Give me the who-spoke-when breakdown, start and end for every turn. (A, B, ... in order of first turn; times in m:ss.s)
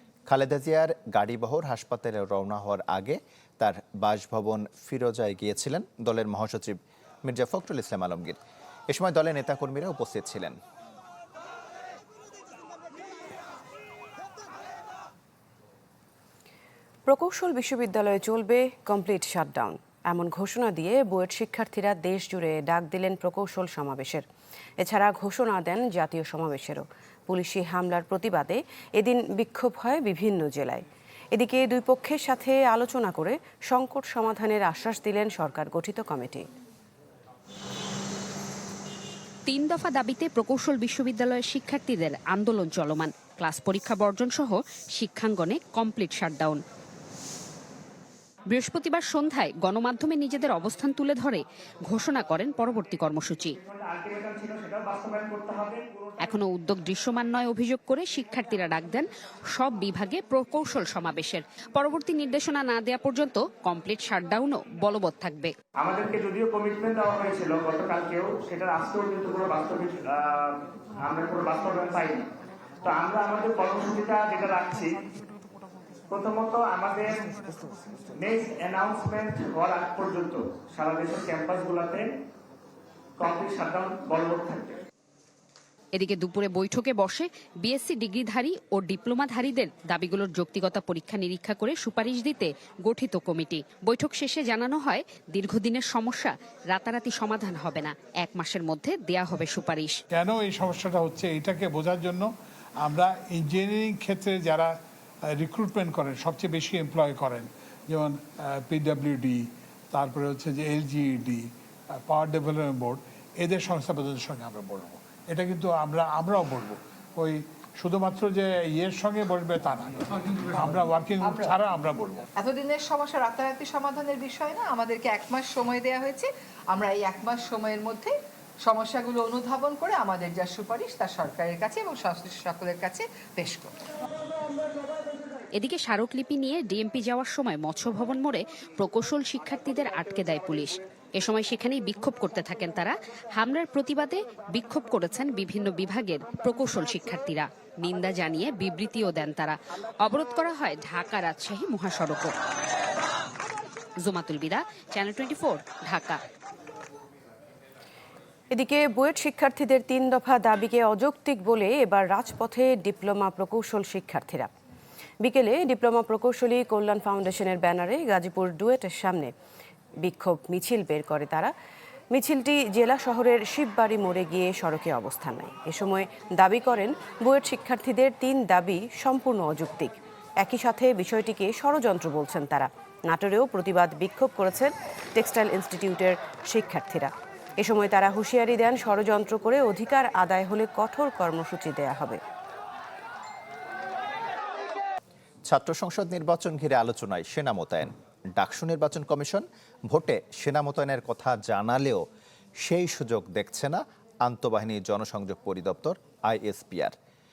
0:00.3-0:08.4 A
0:08.9-0:10.6 A
0:17.1-0:24.2 B
0:24.8-0:30.8 B
0:31.3-0:36.5 B
0:39.5-0:46.6 C
0:48.5-0:53.6 C
0:53.6-0:56.3 D
0:56.2-1:05.5 C
1:05.8-1:12.2 D
1:12.8-1:15.0 D
1:16.1-1:17.3 D
1:18.2-1:22.1 D
1:23.2-1:24.8 D
1:25.9-1:40.0 C
1:40.1-1:42.3 E
1:42.8-1:44.8 E
1:45.3-1:51.5 E
1:52.0-2:00.0 E
2:00.6-2:02.2 E
2:01.2-2:01.5 F
2:02.4-2:13.7 F
2:15.6-2:32.3 C
2:34.0-2:36.2 C
2:38.5-2:44.5 B
2:45.2-2:49.3 B
2:50.0-2:51.5 B
2:52.1-3:12.2 B
3:15.5-3:22.0 A
3:22.6-3:26.9 A